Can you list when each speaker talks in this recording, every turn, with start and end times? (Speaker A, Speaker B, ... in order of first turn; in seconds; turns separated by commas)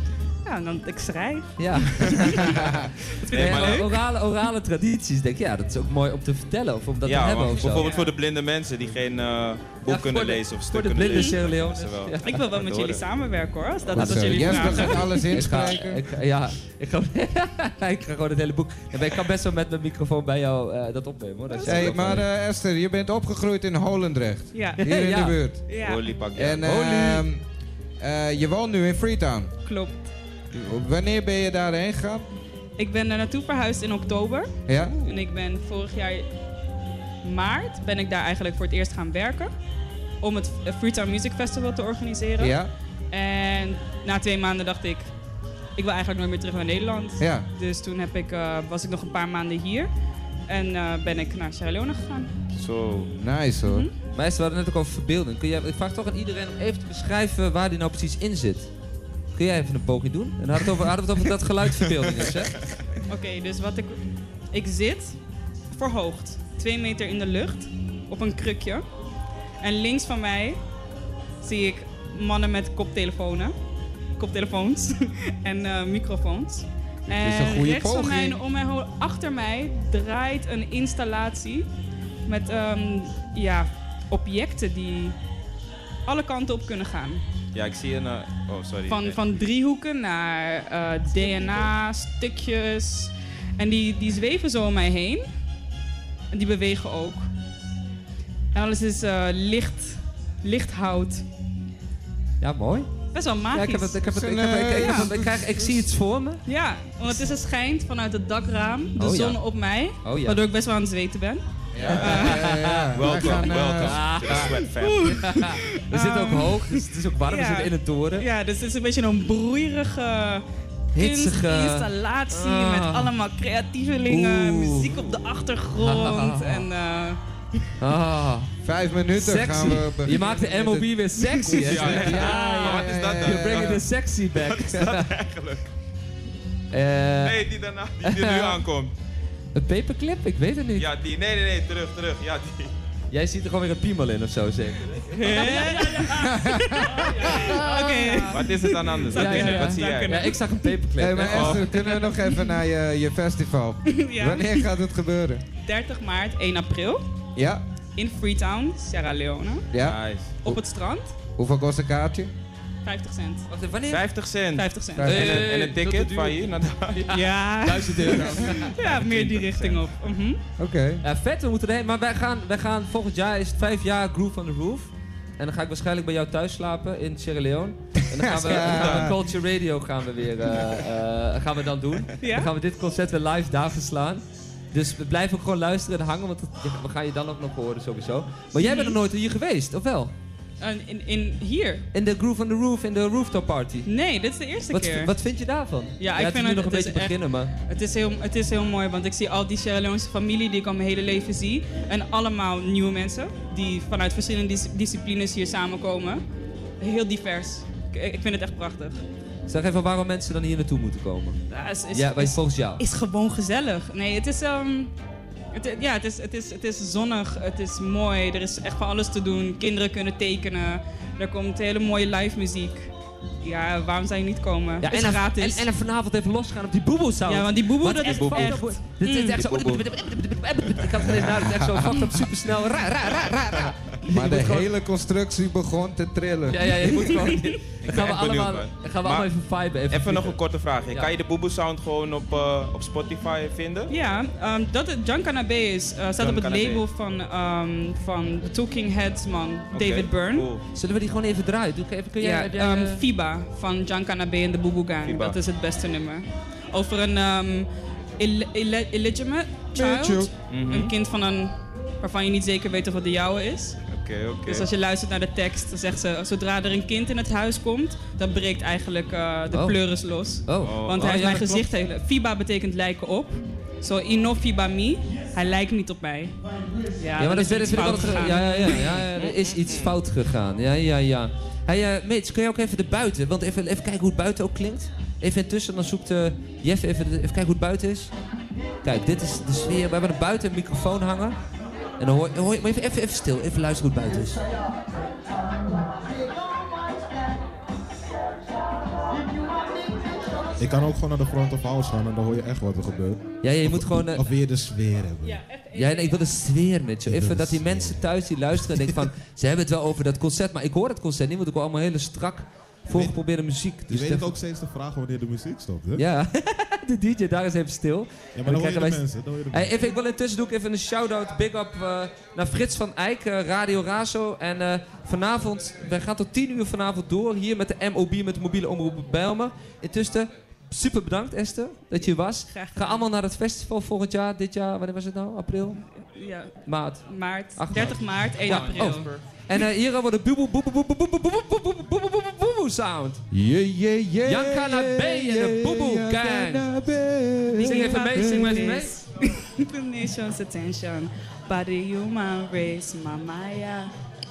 Speaker A: 0.4-3.9, Speaker B: 1.6-2.3, Speaker C: 2.2-2.7, Speaker D: 3.3-3.8, Speaker B: 3.3-7.9, Speaker D: 7.0-13.0, Speaker A: 7.7-8.1, Speaker B: 9.8-12.2, Speaker A: 11.1-11.4, Speaker A: 12.2-15.2, Speaker C: 13.9-16.0, Speaker B: 13.9-22.2, Speaker A: 21.5-22.1, Speaker C: 21.6-25.6, Speaker A: 24.5-24.8, Speaker B: 24.8-25.4, Speaker A: 25.7-26.1, Speaker D: 25.8-26.7, Speaker C: 26.3-27.4, Speaker B: 26.6-27.3, Speaker C: 28.0-29.5, Speaker A: 29.6-30.1, Speaker C: 30.5-32.2, Speaker A: 32.8-36.2, Speaker C: 34.7-35.0, Speaker A: 37.2-39.5, Speaker A: 40.2-42.6, Speaker C: 42.4-42.7, Speaker A: 43.1-45.1, Speaker A: 45.8-49.9, Speaker C: 47.2-47.5, Speaker A: 50.5-52.3, Speaker D: 52.5-53.1, Speaker C: 53.2-53.9, Speaker A: 53.6-53.9, Speaker B: 54.1-58.7, Speaker B: 59.3-62.6, Speaker A: 63.1-65.2, Speaker A: 65.7-68.8, Speaker A: 69.6-70.6, Speaker A: 71.4-73.5, Speaker A: 74.2-81.7, Speaker C: 77.1-78.4, Speaker A: 82.3-85.2, Speaker A: 86.1-87.2, Speaker D: 87.5-89.2, Speaker A: 88.9-95.2, Speaker A: 96.3-97.3, Speaker A: 98.5-101.2, Speaker B: 102.4-102.9, Speaker A: 103.1-104.0, Speaker B: 103.5-106.4, Speaker C: 104.1-105.8, Speaker A: 104.7-105.1, Speaker A: 106.5-111.4, Speaker B: 109.0-109.4, Speaker B: 110.0-110.4, Speaker C: 111.7-114.0, Speaker D: 111.8-115.4, Speaker A: 111.9-112.4, Speaker B: 112.1-118.3, Speaker A: 114.4-127.2, Speaker B: 120.9-123.1, Speaker B: 124.1-125.0, Speaker B: 125.8-126.7, Speaker B: 127.8-128.5, Speaker C: 128.6-130.9, Speaker B: 129.1-135.1, Speaker A: 131.2-132.7, Speaker D: 131.5-135.7, Speaker C: 131.6-133.8, Speaker B: 136.7-137.4, Speaker D: 137.2-138.9, Speaker B: 138.0-138.6, Speaker B: 139.5-140.9, Speaker D: 140.8-142.7, Speaker B: 143.1-146.3, Speaker A: 145.1-150.7, Speaker C: 146.0-147.4, Speaker B: 146.9-148.2, Speaker D: 148.3-150.4, Speaker B: 149.1-151.7, Speaker C: 151.0-155.4, Speaker D: 151.2-151.7, Speaker A: 151.7-152.6, Speaker A: 153.8-154.7, Speaker A: 155.6-157.0, Speaker C: 157.3-157.6, Speaker A: 157.9-159.7, Speaker C: 159.7-160.6, Speaker D: 159.8-160.4, Speaker A: 160.4-161.1, Speaker C: 161.4-162.3, Speaker A: 162.8-163.5, Speaker B: 163.5-164.0, Speaker D: 163.9-167.1, Speaker A: 164.5-165.2, Speaker C: 165.0-165.4, Speaker B: 165.0-168.7, Speaker A: 167.1-170.4, Speaker D: 168.0-169.8, Speaker C: 170.6-171.0, Speaker B: 171.0-190.1, Speaker C: 178.2-179.2, Speaker D: 178.4-179.2, Speaker A: 182.2-182.5, Speaker A: 188.6-189.0, Speaker A: 190.6-191.8, Speaker B: 191.9-193.9, Speaker A: 193.8-195.1, Speaker B: 194.7-197.5, Speaker A: 196.0-206.2, Speaker A: 206.8-209.0, Speaker B: 209.5-211.4, Speaker A: 211.5-214.9, Speaker B: 211.9-212.8, Speaker A: 215.5-222.9, Speaker A: 223.4-225.7, Speaker B: 224.8-234.7, Speaker A: 227.2-229.4, Speaker D: 228.0-228.5, Speaker D: 229.3-229.8, Speaker C: 231.1-231.9, Speaker C: 234.1-236.9, Speaker B: 236.5-240.4, Speaker A: 236.8-237.5, Speaker D: 237.8-239.3, Speaker D: 239.9-243.9, Speaker A: 243.9-250.5, Speaker D: 246.2-246.8, Speaker D: 249.7-250.6, Speaker B: 250.6-253.0, Speaker A: 252.2-263.8, Speaker D: 255.0-255.4, Speaker C: 259.7-260.3, Speaker D: 260.5-260.9, Speaker D: 263.9-264.7, Speaker A: 264.4-276.4, Speaker B: 269.5-269.8, Speaker B: 270.4-271.7, Speaker D: 270.6-271.2, Speaker A: 277.0-279.1, Speaker B: 277.1-288.1, Speaker D: 279.1-279.9, Speaker B: 288.8-291.4, Speaker B: 292.0-294.4, Speaker E: 300.6-305.4, Speaker B: 303.4-304.3, Speaker A: 305.2-306.3, Speaker B: 305.7-314.3, Speaker E: 307.0-308.9, Speaker E: 312.9-313.2, Speaker E: 313.9-316.1, Speaker B: 315.9-335.8, Speaker E: 318.3-319.8, Speaker A: 332.3-333.1, Speaker A: 336.0-339.1, Speaker B: 336.6-337.1, Speaker B: 337.6-343.2, Speaker D: 338.4-339.2, Speaker C: 343.3-348.6, Speaker B: 344.2-346.8, Speaker A: 347.5-353.9, Speaker B: 347.6-349.0